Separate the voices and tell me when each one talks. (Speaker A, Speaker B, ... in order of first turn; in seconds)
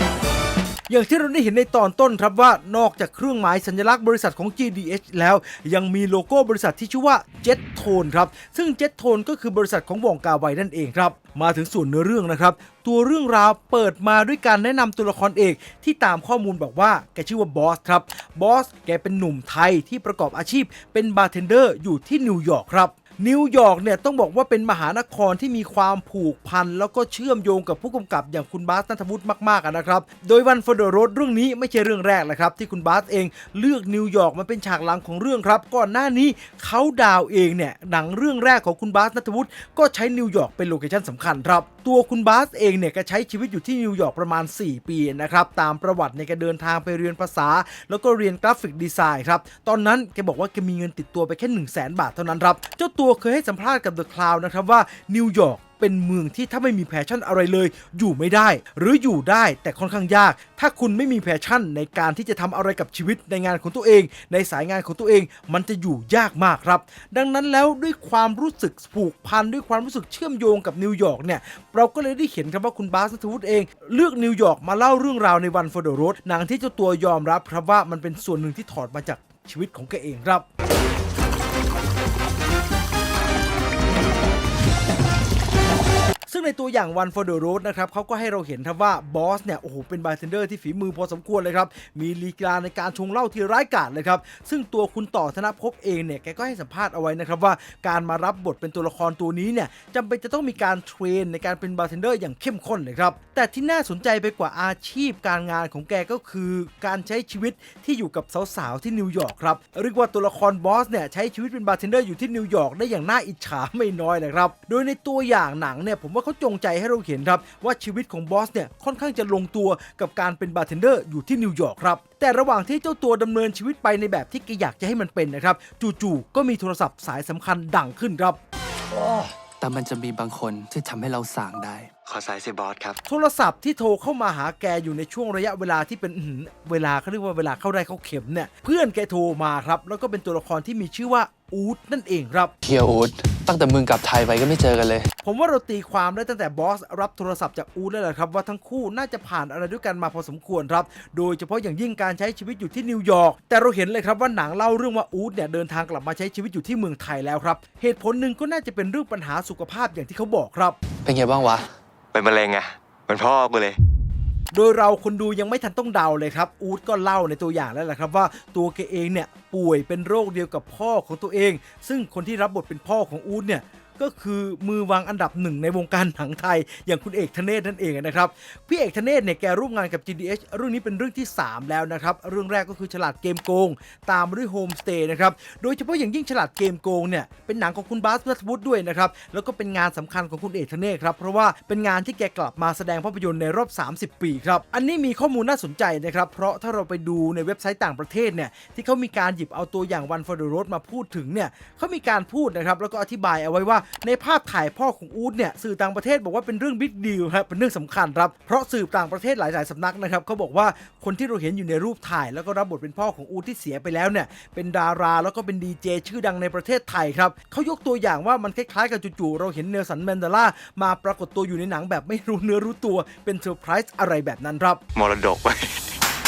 Speaker A: 0.9-80.4, 86.3-128.4, 133.1-142.5, 145.2-160.8, 164.5-224.8
Speaker B: 129.6-131.9, 142.6-145.1, 161.0-161.7
Speaker C: 132.1-133.0, 162.1-163.8, 224.9-226.0